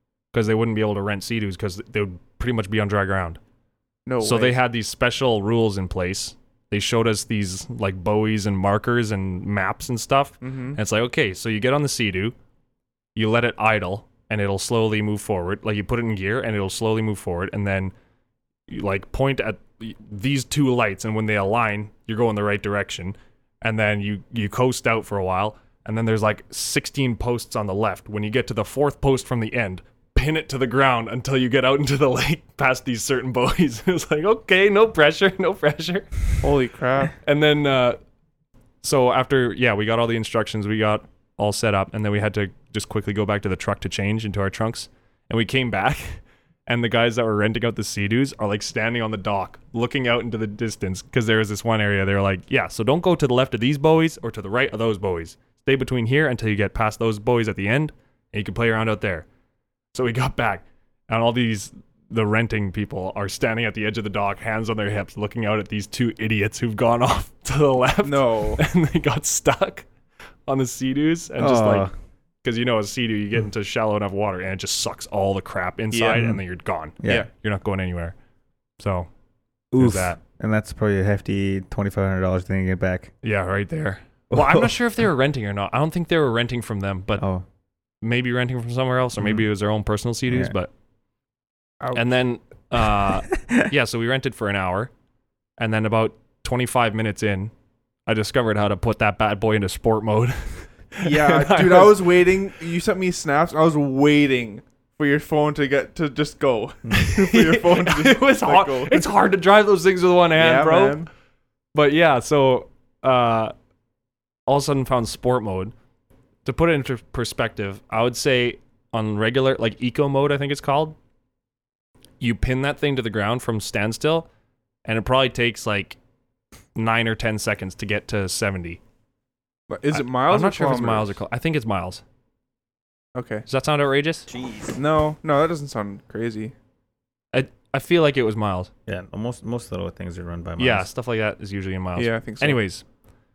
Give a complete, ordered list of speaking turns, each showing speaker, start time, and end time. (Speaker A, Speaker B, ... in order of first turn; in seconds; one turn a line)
Speaker A: 0.3-3.4
Speaker B: 4.1-4.6
Speaker A: 4.2-12.3
Speaker B: 10.4-10.8
Speaker A: 13.2-17.9
Speaker A: 18.7-36.4
Speaker B: 36.4-37.1
Speaker A: 37.2-38.0
Speaker A: 38.8-59.3
Speaker A: 59.9-69.9
Speaker B: 68.0-68.6
Speaker A: 70.5-71.9
Speaker C: 71.4-71.9
Speaker A: 72.4-78.2
Speaker B: 75.9-76.3
Speaker C: 77.0-77.3
Speaker A: 78.8-79.1
Speaker C: 79.7-83.1
Speaker A: 79.8-80.2
Speaker A: 83.2-87.2
Speaker C: 84.3-84.7
Speaker C: 87.2-87.5
Speaker A: 88.0-90.7
Speaker B: 91.8-92.1
Speaker A: 91.9-94.9
Speaker A: 95.6-97.5
Speaker A: 98.1-102.1
Speaker B: 101.0-109.1
Speaker A: 106.9-111.0
Speaker B: 110.3-111.1
Speaker A: 111.7-113.5
Speaker A: 114.5-115.7
Speaker A: 116.5-121.0
Speaker A: 122.2-124.3
Speaker A: 124.8-126.0
Speaker A: 126.8-128.8
Speaker B: 129.7-131.2
Speaker A: 129.9-132.0
Speaker B: 133.2-133.5
Speaker A: 133.5-134.3
Speaker C: 134.3-134.8
Speaker B: 134.8-136.5
Speaker A: 137.3-138.7
Speaker C: 138.9-140.9
Speaker A: 140.6-142.8
Speaker B: 142.0-142.6